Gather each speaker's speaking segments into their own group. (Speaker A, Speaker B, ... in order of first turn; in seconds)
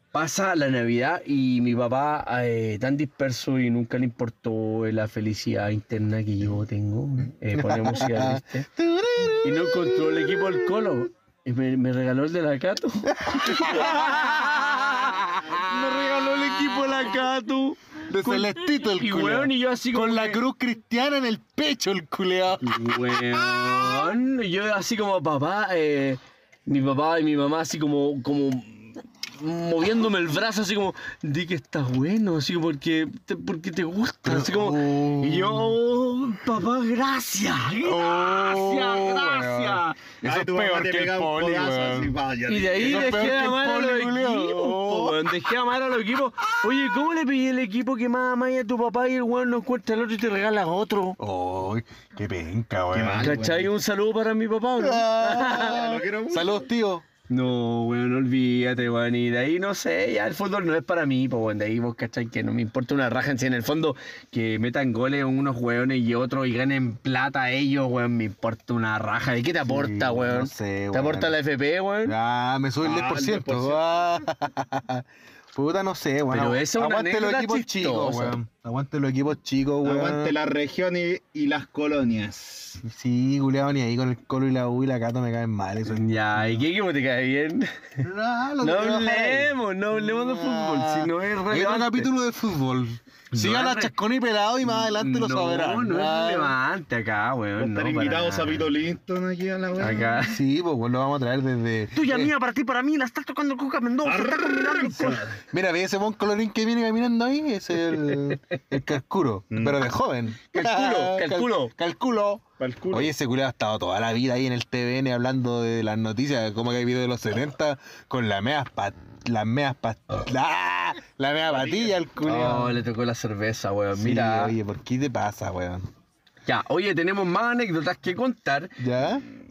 Speaker A: 0.1-8.7, 9.4-20.4, 22.6-40.0, 42.5-51.2, 53.2-55.9, 57.3-72.2, 76.3-78.4, 85.9-88.1, 88.6-92.1, 93.3-93.9, 94.7-98.7, 99.8-100.4, 101.9-105.3, 110.5-111.7, 122.2-124.5, 126.5-128.8
Speaker B: 7.5-10.9, 13.1-17.2, 18.1-24.1, 34.2-35.8, 37.8-42.1, 42.8-45.3, 51.2-53.4, 54.8-57.0, 69.7-71.3, 72.0-80.3, 82.8-86.1, 88.0-96.5, 100.2-102.3, 105.5-122.8, 123.9-125.9, 128.8-129.2
Speaker C: 40.2-43.3, 52.9-53.7, 55.4-56.6, 72.8-73.8, 79.8-82.8, 97.6-100.2, 104.0-105.3, 109.5-109.9, 112.6-113.1, 121.5-122.0